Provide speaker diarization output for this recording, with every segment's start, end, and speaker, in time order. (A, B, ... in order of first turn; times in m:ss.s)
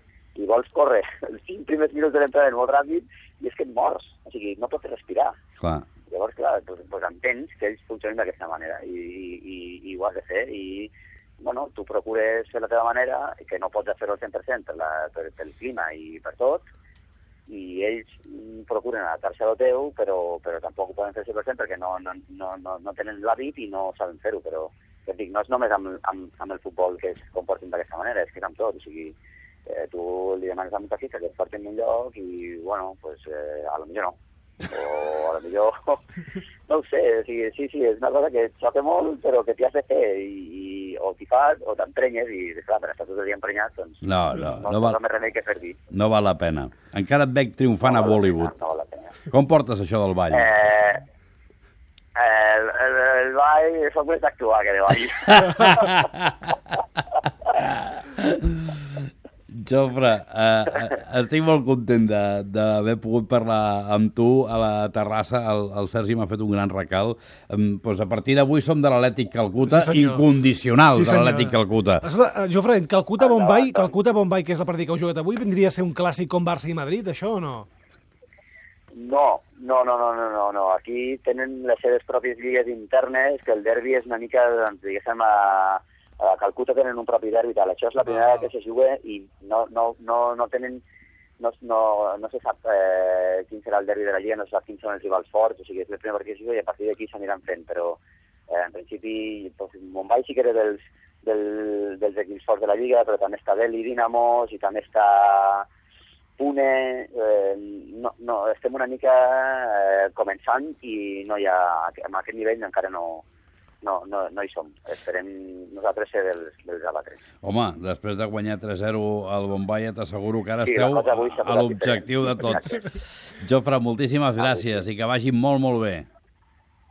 0:00.3-0:05.4 A
0:05.6-0:05.9 B
0:06.0-0:16.6 A
0:17.5-0:29.1 A
0:29.7-0:36.0 A
0:36.7-0:45.8 A
0:44.0-0:45.0 B
0:45.9-0:48.5 B
0:47.8-0:49.2 A
0:49.2-0:50.5 B
0:50.3-0:51.0 A
0:52.2-0:56.0 A
0:55.3-0:56.5 B
0:57.7-0:59.0 B
0:59.5-1:12.0 B
1:09.6-1:10.2 C
1:10.9-1:17.7 C
1:13.2-1:13.9 A
1:18.9-1:30.8 A
1:31.4-1:45.7 A
1:46.4-1:53.2 A
1:53.8-1:57.2 A
1:57.4-2:06.1 B
2:00.6-2:02.8 A
2:04.4-2:04.7 A